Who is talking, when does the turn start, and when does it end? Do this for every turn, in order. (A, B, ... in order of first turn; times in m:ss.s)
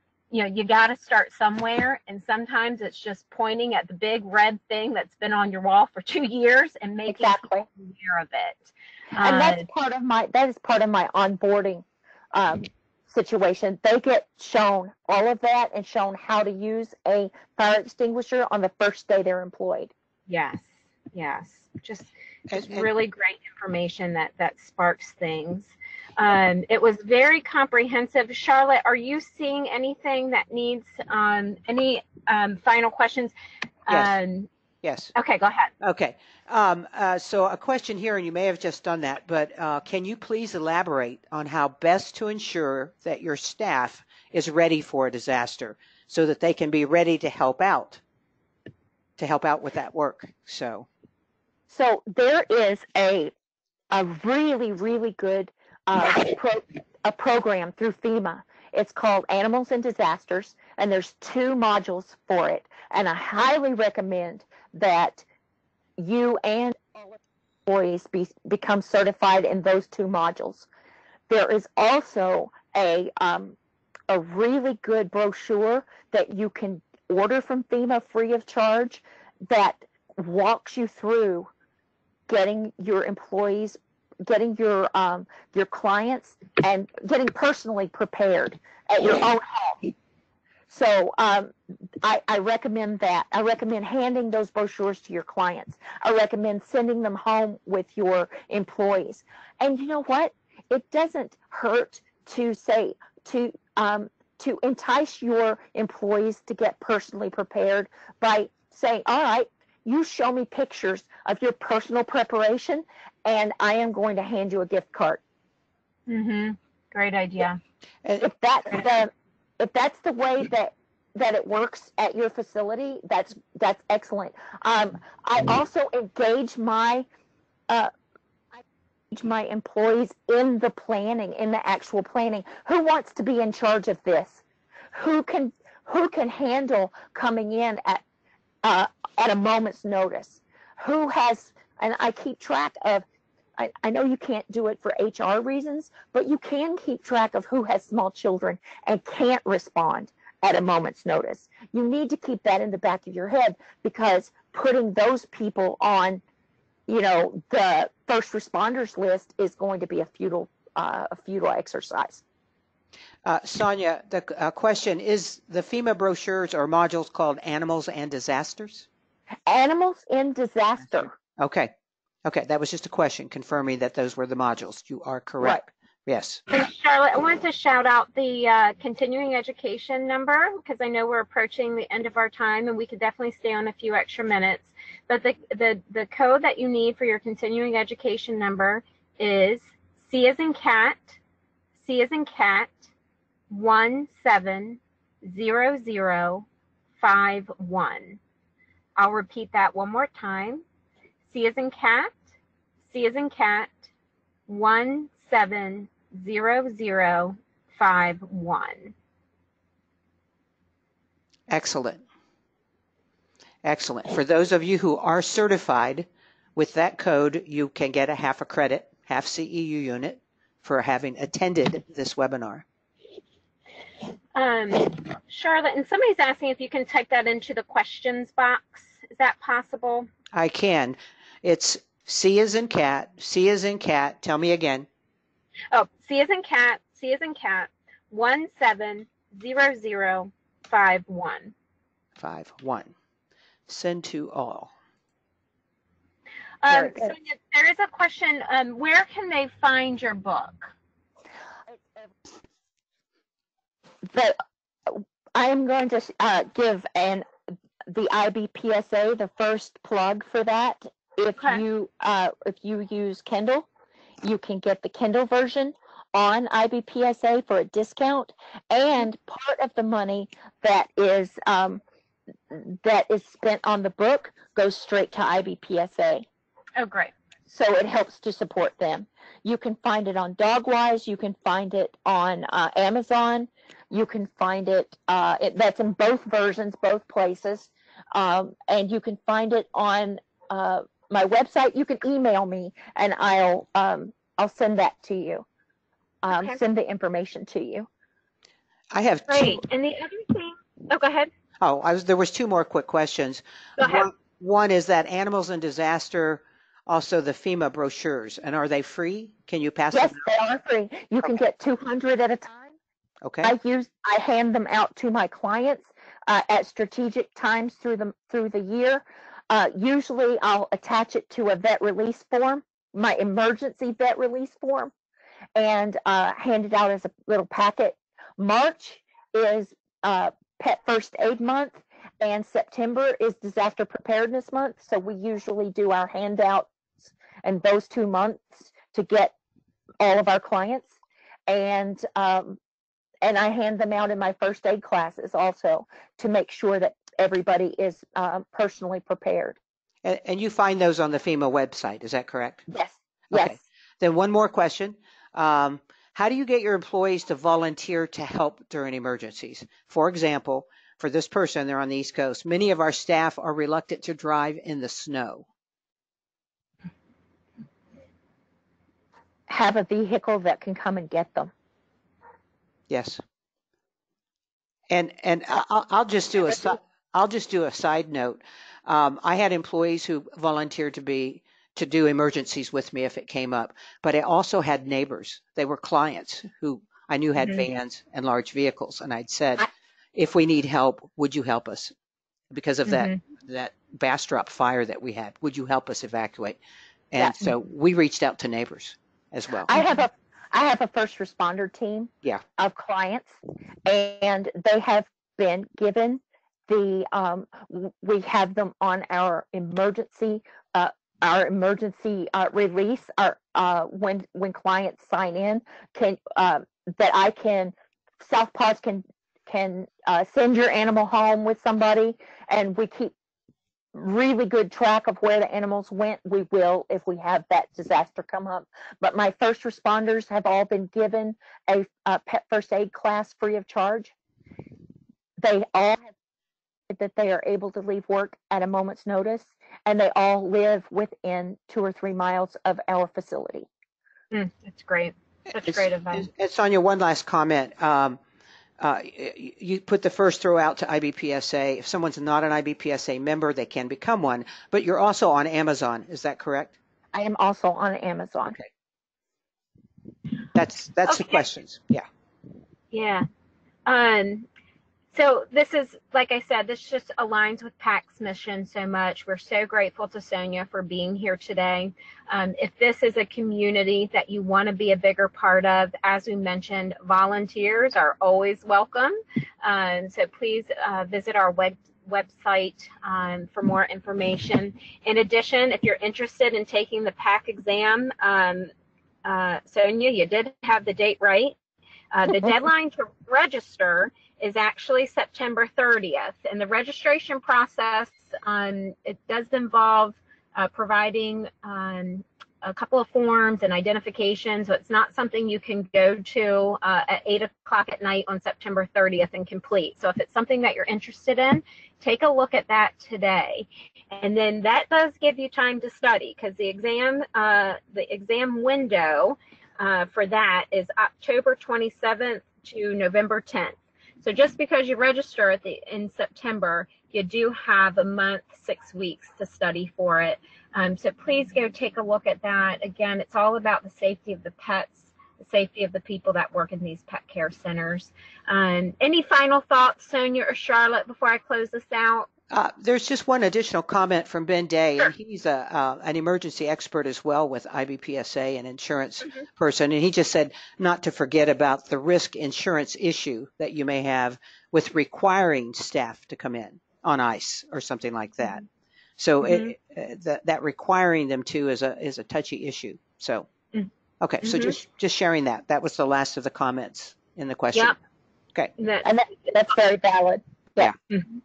0:00.3-0:09.7 A
0:07.1-0:07.7 B
0:09.2-0:19.9 B
0:20.3-0:33.3 A
0:22.5-0:22.9 C
0:33.9-0:34.5 A
0:33.9-0:34.2 C
0:34.8-0:35.1 C
0:35.2-0:35.7 A
0:35.8-0:48.0 C
0:49.2-0:50.9 C
0:51.7-0:53.3 B
0:53.9-1:05.2 B
1:06.0-1:10.7 B
1:11.3-1:13.6 B
1:14.1-1:21.5 B
1:22.3-1:29.9 B
1:30.7-1:55.2 B
1:56.1-1:57.6 A
1:58.2-2:07.1 B
2:08.5-2:18.0 B
2:18.6-2:23.0 B
2:23.6-2:36.2 B
2:36.9-2:42.2 B
2:43.2-2:48.9 C
2:49.5-2:51.1 B
2:51.4-2:51.7 C
2:52.2-2:56.4 C
2:56.5-3:11.2 A
3:11.8-3:12.9 A
3:13.5-3:16.5 A
3:17.0-3:18.2 A
3:19.0-3:20.6 A
3:21.3-3:22.2 A
3:22.9-3:23.9 A
3:24.5-3:28.9 A
3:31.5-3:32.0 C
3:33.6-3:42.6 C
3:44.4-3:50.1 A
3:50.3-3:54.9 C
3:55.7-4:01.5 A
4:02.2-4:02.9 C
4:03.7-4:04.7 C
4:06.6-4:10.7 A
4:06.7-4:07.2 B
4:11.7-4:12.1 B
4:14.1-4:17.3 B
4:17.9-4:23.7 B
4:24.2-4:31.8 B
4:32.5-4:36.3 B
4:36.8-4:37.1 A
4:37.5-4:55.5 B
4:56.2-4:57.9 B
4:56.3-4:56.6 A
4:58.9-4:59.6 C
4:59.3-5:01.3 A
5:01.6-5:10.2 C
5:03.8-5:04.1 A
5:09.9-5:12.8 B
5:13.2-5:13.5 C
5:13.4-5:24.9 B
5:25.6-5:39.3 B
5:40.0-5:40.9 B
5:41.5-5:42.6 B
5:43.2-5:49.6 B
5:50.0-5:52.7 C
5:52.7-5:53.6 B
5:53.3-6:05.5 C
6:09.5-6:11.5 B
6:12.9-6:13.2 C
6:14.9-6:31.9 C
6:27.4-6:27.6 A
6:32.5-6:36.6 C
6:32.9-6:33.2 A
6:37.1-6:39.7 C
6:37.2-6:37.5 B
6:39.7-7:03.1 B
7:03.9-7:14.1 B
7:15.4-7:16.1 B
7:16.9-7:23.7 B
7:24.3-7:26.3 A
7:25.6-7:28.2 C
7:28.8-7:36.8 C
7:37.1-7:38.6 B
7:40.5-7:42.1 C
7:41.1-7:41.4 A
7:42.9-7:43.3 A
7:43.9-7:44.5 A
7:45.1-8:08.7 A
8:09.2-8:11.6 A
8:12.1-9:02.3 A
9:02.5-9:18.6 C
9:19.2-9:23.5 C
9:19.4-9:19.7 A
9:24.2-9:28.0 C
9:24.4-9:24.8 A
9:28.8-9:29.5 A
9:29.0-9:30.9 B